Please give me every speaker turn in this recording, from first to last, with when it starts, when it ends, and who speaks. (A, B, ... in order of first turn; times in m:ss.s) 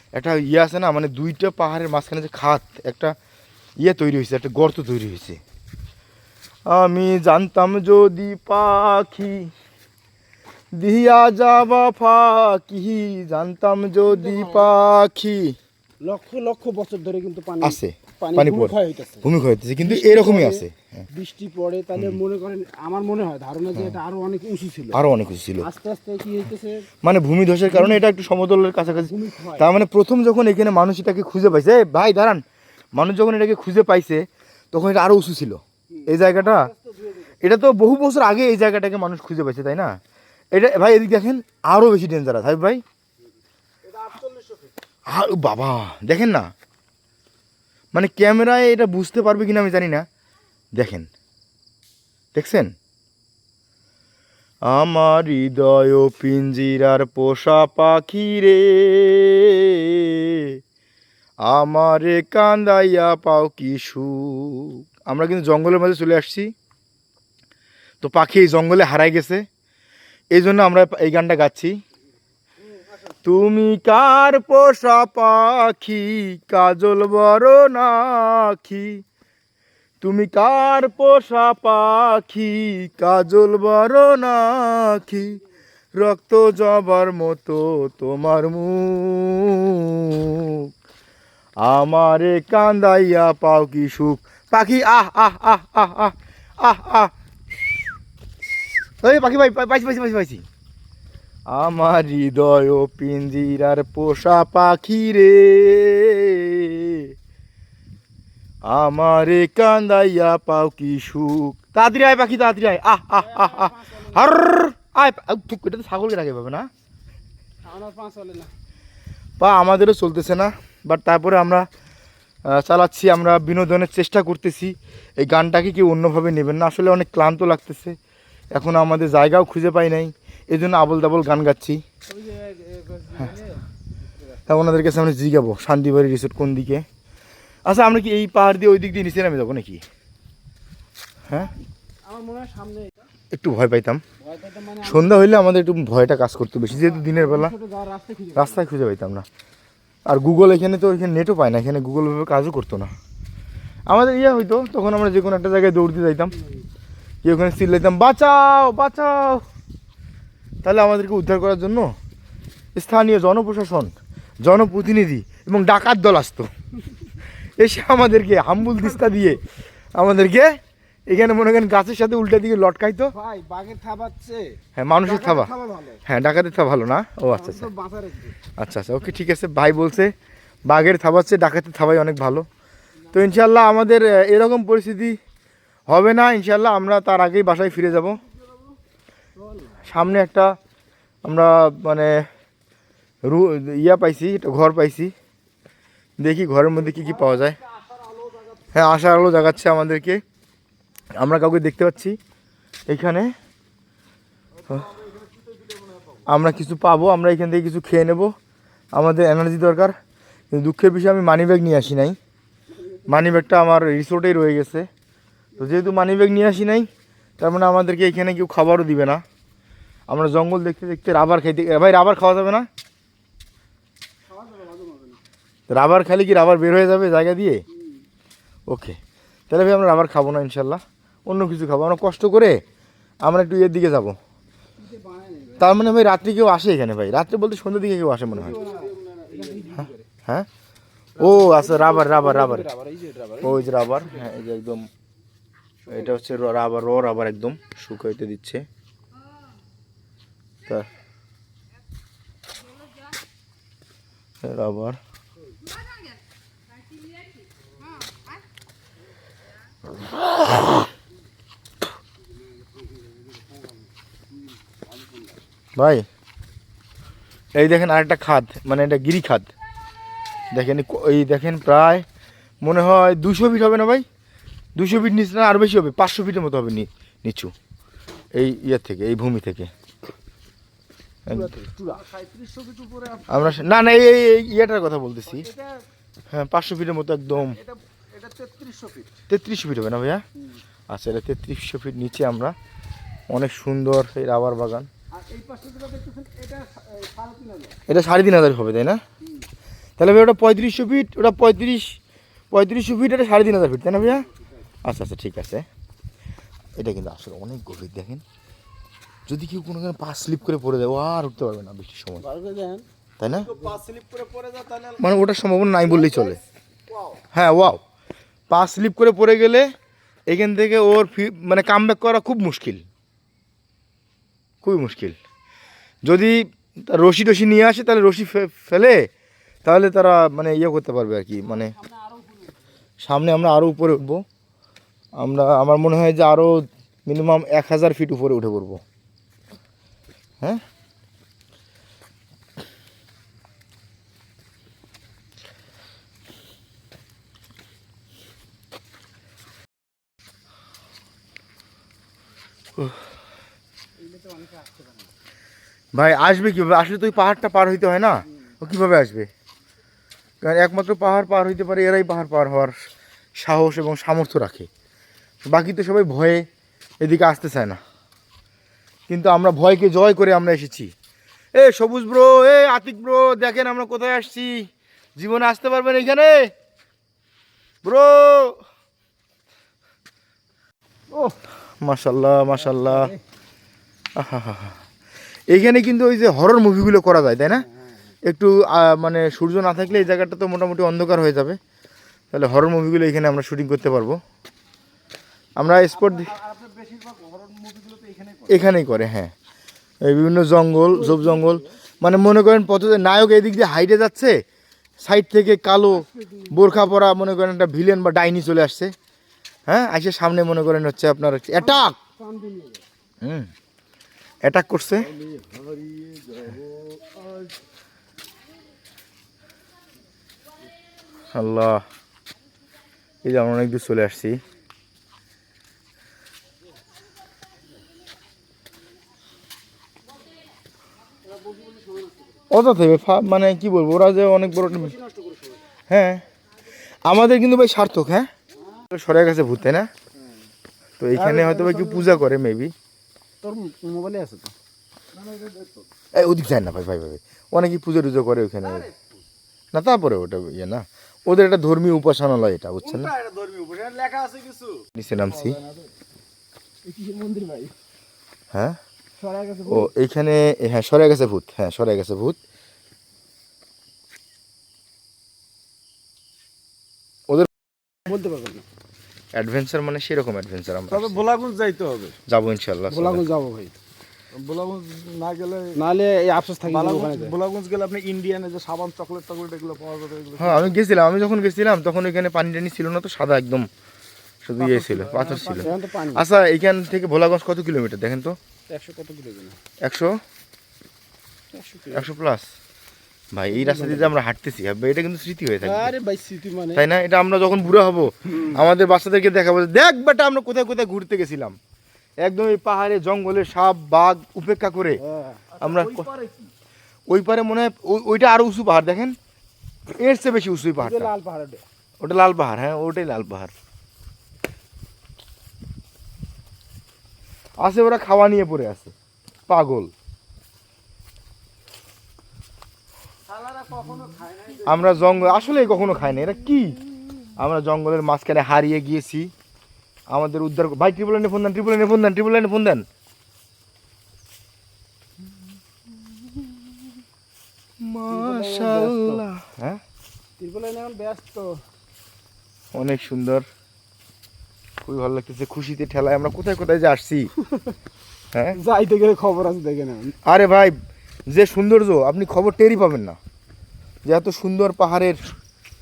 0:00.1-0:03.1 A
0:03.8-0:05.4 A
0:06.7-0:09.5 A
0:10.7-0:15.6 A
0:14.0-0:14.7 B
0:16.0-0:19.3 B
0:17.6-0:21.0 A
0:19.8-0:25.0 B
0:24.9-0:25.7 A
0:25.6-0:26.9 B
0:27.0-0:32.4 A
0:27.7-0:28.0 B
0:28.8-0:29.7 B
0:32.9-0:36.7 A
0:35.9-0:37.4 B
0:37.4-0:40.0 A
0:40.5-0:42.8 A
0:43.8-0:44.7 B
0:45.1-0:46.5 A
0:47.9-0:50.0 A
0:50.7-0:51.1 A
0:52.3-0:52.7 A
0:54.6-1:00.6 A
1:01.4-1:06.5 A
1:08.0-1:09.4 A
1:10.3-1:11.7 A
1:13.2-1:19.0 A
1:20.0-1:25.4 A
1:26.0-1:30.7 A
1:31.6-1:37.1 A
1:39.0-1:40.4 A
1:41.5-1:47.1 A
1:48.7-1:56.7 A
1:53.1-1:54.3 B
1:57.6-1:58.5 B
1:59.4-2:01.6 A
2:02.4-2:08.0 A
2:08.5-2:11.8 A
2:12.1-2:13.6 B
2:14.4-2:14.6 B
2:14.5-2:16.8 A
2:17.6-2:19.8 A
2:22.0-2:23.1 B
2:23.3-2:24.0 A
2:24.2-2:25.3 B
2:24.8-2:27.5 A
2:26.7-2:28.6 B
2:28.3-2:29.2 A
2:30.1-2:32.9 A
2:33.9-2:36.3 A
2:37.2-2:39.4 A
2:40.6-2:41.9 A
2:42.7-2:46.5 A
2:47.6-2:49.4 A
2:49.9-2:50.6 A
2:51.1-2:53.1 A
2:53.1-2:56.0 B
2:54.8-2:55.5 A
2:56.0-2:57.7 A
2:57.3-2:58.4 B
2:58.6-3:00.1 A
3:00.7-3:02.4 A
3:03.1-3:05.2 A
3:05.9-3:08.2 A
3:08.3-3:08.7 B
3:09.4-3:09.9 B
3:09.8-3:10.6 A
3:11.2-3:12.2 A
3:13.2-3:15.1 A
3:16.2-3:17.6 A
3:16.8-3:18.8 B
3:18.7-3:20.2 A
3:21.2-3:22.2 A
3:22.9-3:23.3 A
3:24.7-3:25.8 B
3:26.3-3:28.3 A
3:28.9-3:29.9 A
3:30.5-3:32.2 A
3:32.7-3:33.2 B
3:33.1-3:34.9 A
3:35.6-3:36.9 A
3:37.4-3:39.2 A
3:40.1-3:42.7 A
3:44.3-3:45.2 B
3:45.7-3:47.6 A
3:48.7-3:49.0 A
3:49.5-3:52.6 A
3:53.2-3:54.2 A
3:54.8-3:55.7 B
3:55.6-3:58.6 A
3:58.3-4:00.0 B
4:01.2-4:02.7 A
4:01.2-4:04.3 B
4:03.4-4:04.9 A
4:05.8-4:08.6 A
4:14.4-4:15.0 A
4:23.0-4:23.6 B
4:25.8-4:26.0 A
4:27.5-4:29.5 A
4:30.5-4:32.0 A
4:32.6-4:34.0 A
4:34.7-4:37.5 A
4:38.3-4:39.7 A
4:41.2-4:41.6 A
4:41.3-4:42.2 B
4:42.1-4:43.3 C
4:43.3-4:45.5 A
4:45.3-4:45.8 B
4:46.3-4:47.6 A
4:47.7-4:49.0 B
4:49.3-4:50.2 A
4:50.9-4:52.5 A
4:53.3-4:54.9 A
4:55.1-4:57.8 B
4:57.9-4:59.0 A
5:00.0-5:02.0 A
5:02.5-5:04.2 A
5:04.1-5:04.4 B
5:04.8-5:05.6 A
5:06.8-5:08.2 A
5:09.3-5:12.2 A
5:12.2-5:14.6 B
5:13.2-5:13.5 A
5:13.5-5:14.9 C
5:15.0-5:16.4 A
5:15.8-5:17.2 B
5:17.3-5:17.8 A
5:18.5-5:19.7 A
5:20.3-5:22.8 A
5:24.6-5:25.2 A
5:26.0-5:29.1 A
5:29.6-5:31.7 A
5:31.5-5:32.6 B
5:33.0-5:34.2 A
5:35.2-5:38.8 A
5:54.0-5:55.1 B
5:55.9-5:59.3 A
6:00.4-6:02.7 A
6:03.4-6:04.7 A
6:05.5-6:06.4 A
6:07.0-6:07.8 A
6:09.1-6:10.9 A
6:11.5-6:16.5 A
6:17.8-6:18.6 A
6:21.1-6:21.4 B
6:21.8-6:23.1 A
6:22.6-6:23.2 B
6:24.2-6:24.8 A
6:25.5-6:27.6 A
6:27.5-6:27.9 B
6:28.2-6:31.6 A
6:32.3-6:34.2 A
6:35.6-6:36.3 A
6:35.9-6:38.5 B
6:38.5-6:39.3 A
6:40.0-6:44.4 A
6:40.9-6:41.6 B
6:45.0-6:48.9 A
6:45.9-6:46.7 B
6:49.7-6:52.0 A
6:51.6-6:52.8 B
6:53.2-6:53.5 A
6:54.4-6:55.1 A
6:55.1-6:56.8 C
6:57.1-6:57.5 B
7:01.3-7:01.8 A
7:03.2-7:04.4 A
7:11.2-7:12.4 B
7:12.5-7:14.9 A
7:14.6-7:15.6 B
7:15.9-7:16.2 A
7:17.0-7:18.3 A
7:18.9-7:19.9 A
7:21.0-7:22.7 A
7:21.1-7:22.2 B
7:23.4-7:24.5 B
7:25.1-7:25.8 C
7:26.1-7:28.9 A
7:29.7-7:33.1 A
7:32.9-7:34.8 C
7:35.0-7:35.6 A
7:35.1-7:35.8 B
7:36.8-7:37.7 B
7:38.5-7:38.8 A
7:39.2-7:39.9 B
7:39.7-7:42.4 A
7:48.0-7:48.6 B
7:49.3-7:51.2 A
7:50.9-7:52.2 C
7:52.3-7:53.2 A
7:52.9-7:53.7 B
7:54.3-7:55.8 C
7:55.7-7:57.4 B
7:56.6-8:00.7 C
8:00.4-8:03.7 A
8:04.4-8:08.4 A
8:04.6-8:06.2 B
8:08.7-8:09.6 B
8:09.8-8:10.2 A
8:11.5-8:12.0 B
8:11.9-8:12.5 A
8:13.3-8:15.9 A
8:13.5-8:14.1 B
8:15.6-8:16.9 B
8:16.7-8:21.6 A
8:22.2-8:25.0 A
8:25.0-8:25.6 B
8:25.6-8:26.1 A
8:25.6-8:26.5 C
8:27.1-8:29.2 A
8:30.0-8:31.1 A
8:30.8-8:31.6 B
8:32.0-8:33.5 A
8:37.6-8:38.9 A
8:39.5-8:39.9 A
8:43.3-8:45.1 B
8:44.6-8:46.8 A
8:47.4-8:49.3 A
8:50.1-8:52.8 A
8:57.8-8:59.8 A
8:58.1-8:59.2 B
9:00.4-9:01.6 B
9:02.7-9:03.4 A
9:04.8-9:07.3 A
9:08.3-9:08.6 A
9:08.5-9:10.1 B
9:10.2-9:10.8 A
9:11.3-9:13.2 A
9:14.0-9:15.2 A